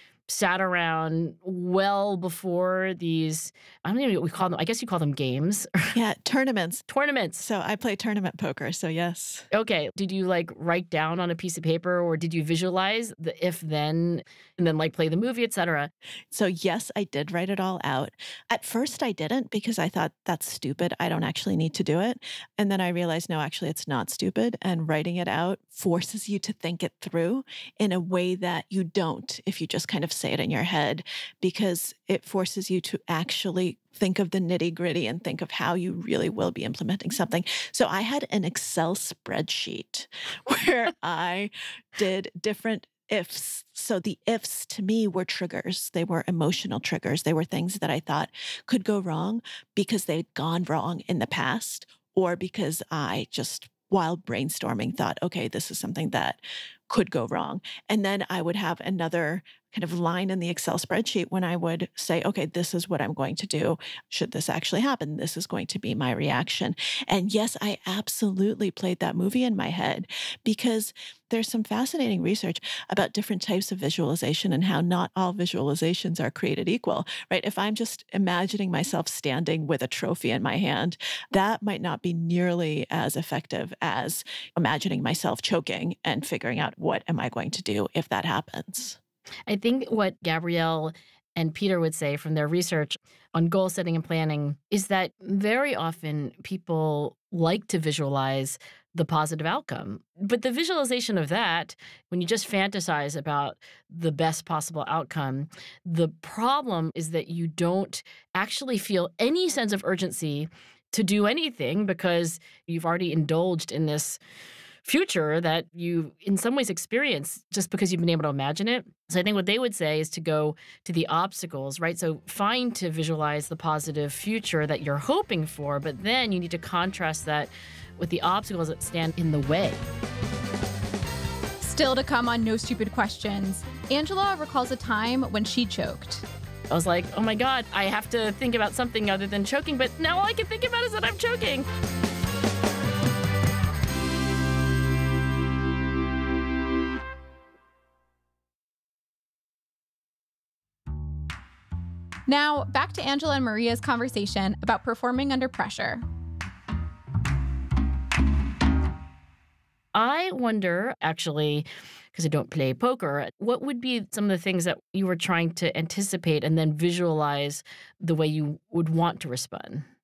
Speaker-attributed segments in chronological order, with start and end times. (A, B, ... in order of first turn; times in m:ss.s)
0:00.3-0:06.0 A
0:06.0-0:06.8 B
0:06.9-0:07.4 A
0:07.4-0:09.5 B
0:09.5-0:15.9 A
0:16.3-1:29.0 B
1:29.5-1:54.2 A
1:54.8-2:09.8 A
2:11.6-2:16.2 C
2:16.7-2:21.7 A
2:32.3-2:36.0 C
2:40.0-2:49.9 A